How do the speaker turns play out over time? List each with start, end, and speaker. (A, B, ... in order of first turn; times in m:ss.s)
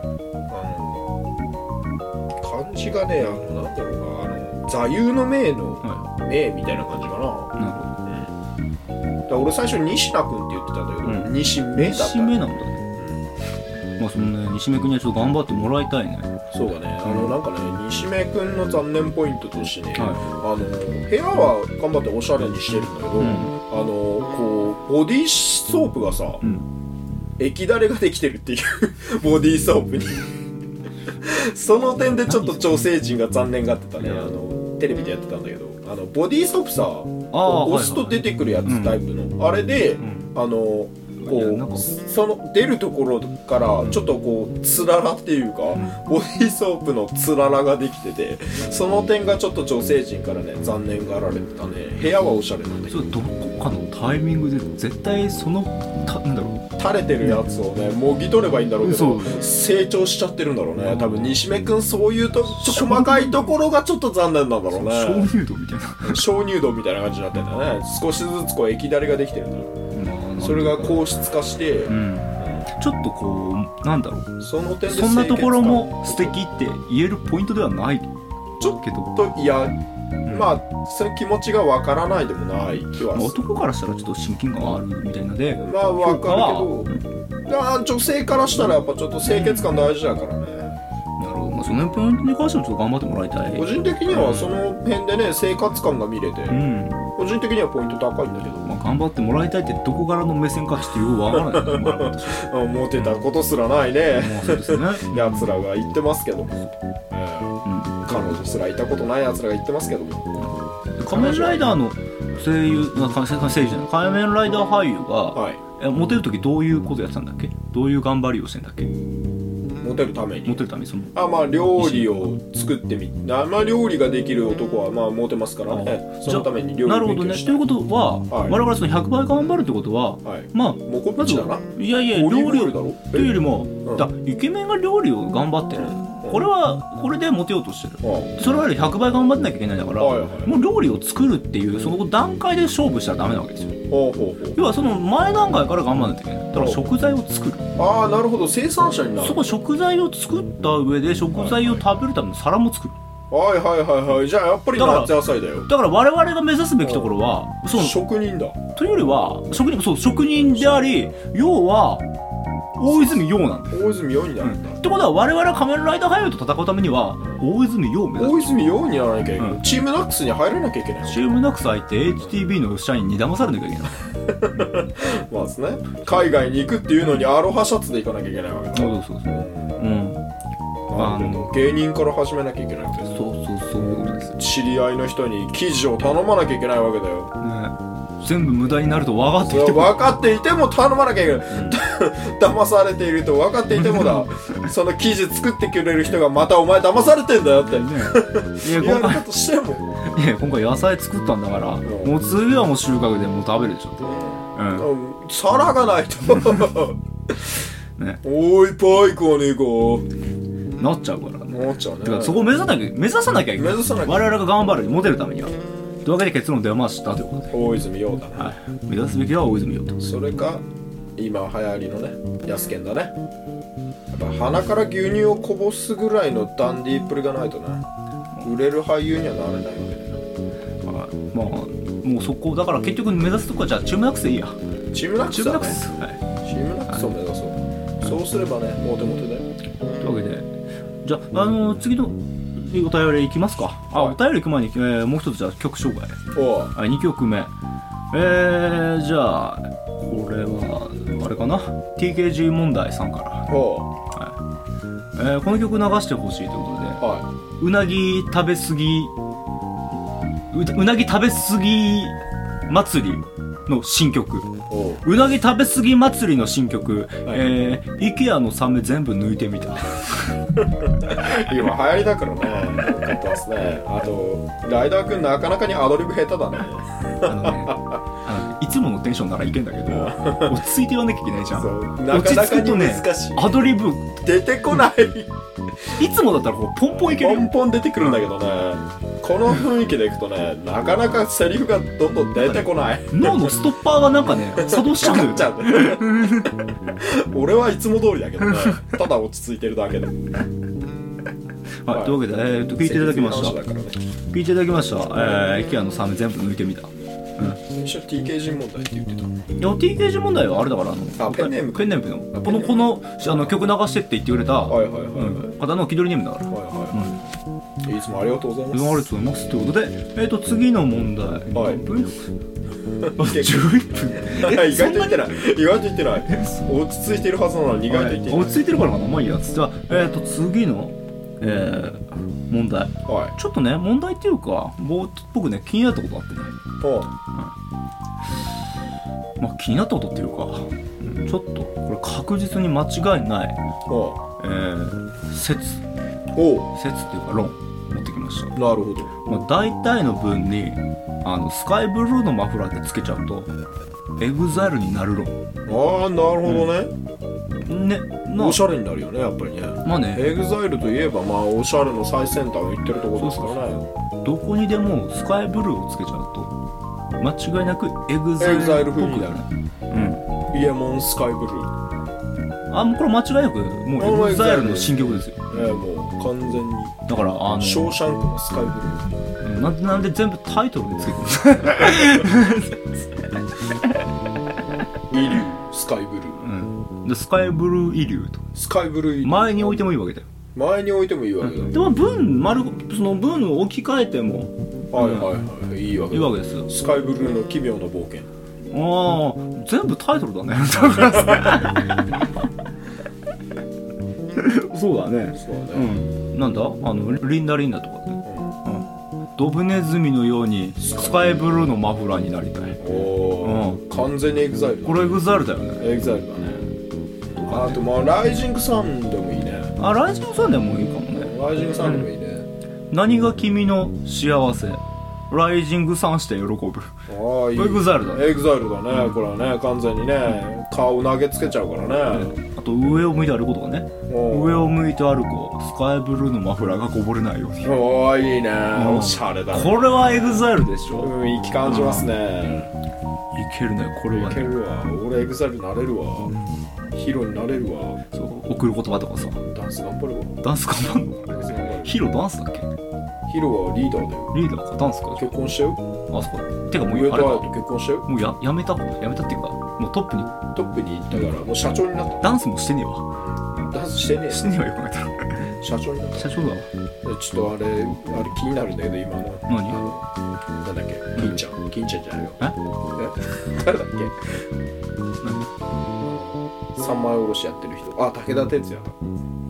0:00.5-0:01.0 A
0:02.4-0:07.5 A
0:07.6-0:08.0 B
0:08.0-0:08.3 A
0:09.3-0:12.4 A
0:11.0-0:12.9 B
0:13.0-0:13.2 A
0:14.0-0:16.4 B
0:16.5-0:26.4 A
0:17.0-0:17.4 B
0:19.9-0:20.2 B
0:23.2-0:23.6 B
0:26.4-0:26.7 B
0:27.4-0:30.4 A
0:31.1-0:53.1 A
0:32.3-0:32.8 B
0:34.0-0:34.3 B
0:37.3-0:39.0 B
0:40.0-0:40.3 B
0:41.2-0:41.9 B
0:52.9-0:56.7 B
0:56.8-1:05.3 A
0:58.8-0:59.4 B
1:00.8-1:01.4 B
1:02.4-1:03.6 B
1:04.7-1:06.2 B
1:06.0-1:09.7 A
1:09.9-1:11.0 B
1:10.4-1:12.7 A
1:11.9-1:18.1 B
1:14.4-1:16.4 A
1:18.6-1:23.4 A
1:18.6-1:19.1 B
1:20.2-1:20.5 B
1:23.1-1:27.0 B
1:25.6-1:26.9 A
1:27.4-1:30.8 A
1:29.2-1:29.7 B
1:31.2-1:34.6 B
1:33.5-1:36.6 A
1:36.5-1:37.0 B
1:37.2-1:38.7 A
1:38.6-1:43.2 B
1:41.3-1:50.3 A
1:44.1-1:45.5 B
1:47.6-1:48.0 B
1:51.0-1:58.9 B
1:51.1-1:51.7 A
1:55.3-1:55.6 A
1:59.8-2:07.6 A
2:00.4-2:01.2 B
2:01.7-2:02.2 B
2:05.7-2:23.8 B
2:08.3-2:08.6 A
2:10.2-2:14.1 A
2:15.7-2:16.4 A
2:18.0-2:18.4 A
2:20.0-2:20.5 A
2:23.9-2:24.6 A
2:24.5-2:27.7 B
2:26.5-2:26.9 A
2:27.8-2:29.5 A
2:29.2-2:32.9 B
2:31.3-2:32.0 A
2:33.3-2:35.7 A
2:34.8-2:38.0 B
2:36.8-2:37.1 A
2:37.7-2:38.6 A
2:38.7-2:42.0 B
2:40.6-2:41.1 A
2:42.8-2:43.8 B
2:42.8-2:44.8 A
2:44.4-2:48.6 B
2:48.2-2:51.2 A
2:51.0-2:54.0 B
2:54.2-2:59.8 A
2:58.7-3:00.2 B
3:00.9-3:03.2 A
3:01.0-3:01.5 B
3:03.0-3:04.4 B
3:03.8-3:07.3 A
3:07.4-3:10.1 B
3:09.4-3:19.9 A
3:11.5-3:11.8 B
3:13.7-3:14.3 B
3:17.6-3:19.2 B
3:20.0-3:24.9 B
3:21.8-3:22.2 A
3:24.0-3:27.6 A
3:28.2-3:30.0 A
3:30.8-3:37.5 B
3:31.5-3:32.5 A
3:33.5-3:34.4 A
3:37.5-3:38.5 A
3:38.4-3:40.1 B
3:40.0-3:40.6 A
3:41.2-3:43.2 A
3:44.1-3:47.8 A
3:48.4-3:50.2 A
3:50.8-3:54.6 B
3:54.9-3:55.8 A
3:55.3-3:56.2 B
3:56.4-3:59.5 A
4:00.0-4:00.5 B
4:01.0-4:06.2 B
4:06.3-4:06.7 A
4:06.7-4:07.5 B
4:08.1-4:13.5 B
4:13.5-4:13.9 A
4:15.1-4:17.0 B
4:17.0-4:17.2 A
4:17.6-4:19.1 B
4:20.5-4:22.2 B
4:22.7-4:30.4 B
4:24.7-4:25.0 A
4:30.8-4:38.0 A
4:37.2-4:44.2 B
4:39.9-4:40.6 A
4:41.5-4:45.3 A
4:46.0-4:48.2 B
4:47.0-4:53.6 A
4:52.4-4:56.5 B
4:54.5-5:00.2 A
4:58.4-4:58.8 B
5:01.8-5:03.6 B
5:01.9-5:02.2 A
5:02.8-5:04.0 A
5:04.3-5:07.6 B
5:05.1-5:05.4 A
5:07.7-5:09.4 A
5:09.6-5:17.2 B
5:11.2-5:13.6 A
5:14.7-5:15.5 A
5:16.5-5:17.1 A
5:17.8-5:19.1 A
5:18.7-5:22.4 B
5:21.5-5:21.8 A
5:23.0-5:28.6 A
5:23.2-5:25.4 B
5:26.2-5:26.6 B
5:27.9-5:36.6 B
5:33.0-5:33.3 A
5:36.8-5:37.1 A
5:39.4-5:43.6 B
5:43.9-5:44.2 A
5:44.4-5:45.8 B
5:46.3-5:46.7 A
5:46.7-5:48.6 B
5:48.6-5:49.1 A
5:49.2-5:53.5 B
5:54.2-5:55.4 B
5:55.7-5:56.9 A
5:57.6-5:58.6 B
5:58.4-6:03.9 A
5:59.8-6:00.3 B
6:03.1-6:03.7 B
6:04.2-6:06.5 B
6:07.2-6:10.2 B
6:08.4-6:09.4 A
6:10.5-6:11.7 A
6:12.7-6:15.7 B
6:14.0-6:15.0 A
6:15.5-6:17.0 A
6:17.1-6:18.0 B
6:17.5-6:19.0 A
6:19.4-6:24.0 B
6:25.1-6:26.4 A
6:26.4-6:28.5 B
6:28.5-6:29.8 A
6:29.2-6:30.2 B
6:30.5-6:31.8 A
6:31.4-6:35.3 B
6:34.9-6:38.3 A
6:36.1-6:36.7 B
6:38.7-6:42.3 B
6:44.3-6:52.8 B
6:45.3-6:45.9 A
6:48.2-6:48.5 A
6:50.8-6:51.4 A
6:52.8-6:55.2 A
6:53.4-6:53.8 B
6:54.8-6:55.8 B
6:55.8-6:56.7 A
6:57.3-6:59.7 A
6:57.4-6:57.8 B
6:59.8-7:02.1 B
7:01.1-7:02.5 A
7:02.9-7:07.0 B
7:07.1-7:12.3 A
7:07.6-7:08.2 B
7:08.9-7:09.2 B
7:12.1-7:17.7 B
7:14.1-7:14.7 A
7:17.6-7:20.5 A
7:18.7-7:21.1 B
7:21.0-7:22.7 A
7:21.6-7:22.1 B
7:23.3-7:24.5 B
7:24.1-7:26.3 A
7:26.3-7:26.6 B
7:26.9-7:28.0 A
7:28.1-7:29.4 B
7:29.4-7:30.4 A
7:30.4-7:32.7 B
7:31.3-7:32.0 A
7:33.3-7:34.3 A
7:34.3-7:35.3 B
7:35.2-7:35.8 A
7:36.1-7:37.5 B
7:36.8-7:38.1 A
7:38.0-7:40.4 B
7:40.5-7:42.3 A
7:42.2-7:43.7 B
7:43.1-7:44.5 A
7:44.3-7:45.5 B
7:45.6-7:46.3 A
7:46.1-7:46.7 B
7:47.0-7:50.0 A
7:49.5-7:49.8 B
7:50.6-7:52.4 A
7:52.9-7:54.2 A
7:55.2-7:55.5 B
7:56.0-7:59.0 A